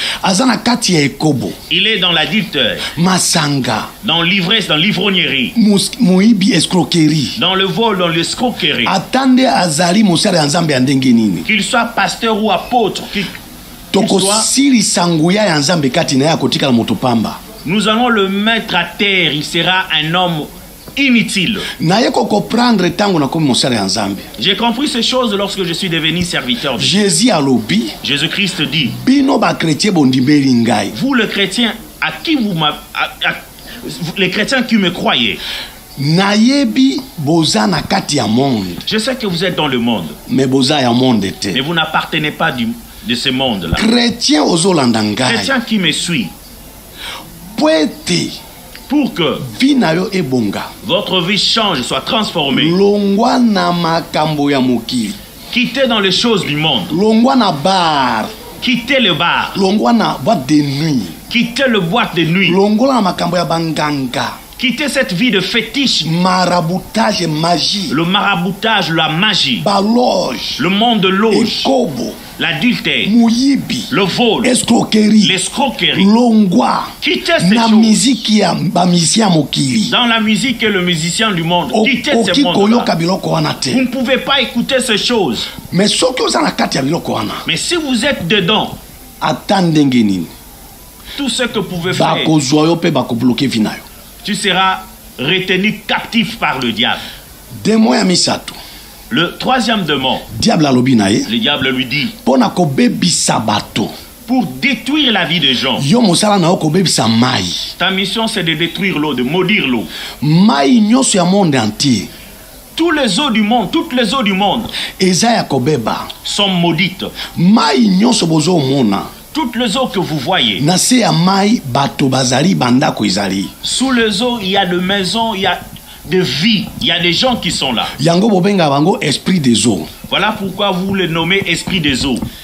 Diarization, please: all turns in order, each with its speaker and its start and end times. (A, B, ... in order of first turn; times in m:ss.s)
0:00.2-0:01.6 A
0:01.7-0:02.9 B
0:02.9-0:03.9 A
0:04.0-0:05.6 B
0:05.6-0:07.4 A
0:07.4-0:09.0 B
0:08.8-0:11.5 A
0:11.5-0:13.4 B
0:13.9-0:17.4 A
0:14.0-0:14.5 B
0:17.6-0:21.7 B
0:21.8-0:24.3 A
0:24.4-0:27.1 B
0:26.8-0:28.0 A
0:28.0-0:29.0 B
0:28.9-0:30.9 A
0:30.9-0:35.4 B
0:36.0-0:38.8 A
0:38.9-0:40.2 B
0:40.3-0:41.6 A
0:41.5-0:43.9 B
0:43.7-0:45.6 A
0:45.2-0:46.3 B
0:47.6-0:48.4 A
0:48.9-0:49.5 B
0:49.4-0:50.7 A
0:50.8-0:52.8 B
0:52.5-0:55.2 A
0:55.5-0:57.0 B
0:56.9-0:58.3 A
0:58.6-0:59.6 B
0:59.6-1:01.2 A
1:01.3-1:02.6 B
1:02.4-1:04.4 A
1:04.6-1:06.1 B
1:06.0-1:08.0 A
1:07.9-1:09.7 B
1:09.6-1:10.7 A
1:10.6-1:11.7 B
1:11.3-1:12.3 A
1:12.4-1:13.1 B
1:13.0-1:15.4 A
1:13.9-1:14.6 B
1:15.2-1:16.1 B
1:15.9-1:19.9 A
1:17.0-1:18.1 B
1:19.9-1:22.9 B
1:21.7-1:23.8 A
1:23.7-1:25.5 B
1:25.7-1:27.4 A
1:27.5-1:28.8 B
1:29.2-1:30.3 A
1:31.2-1:32.3 B
1:31.9-1:33.9 A
1:34.2-1:37.0 B
1:37.6-1:38.6 A
1:39.1-1:40.3 B
1:40.3-1:41.3 A
1:41.3-1:42.2 B
1:42.2-1:43.9 A
1:44.3-1:45.9 B
1:45.8-1:47.7 A
1:47.8-1:49.9 B
1:50.2-1:52.1 A
1:52.8-1:54.7 B
1:54.9-1:56.1 A
1:56.2-1:57.2 B
1:57.3-1:59.1 A
1:59.3-2:00.7 B
2:00.6-2:03.5 A
2:03.6-2:07.9 B
2:08.0-2:09.9 A
2:10.1-2:12.3 B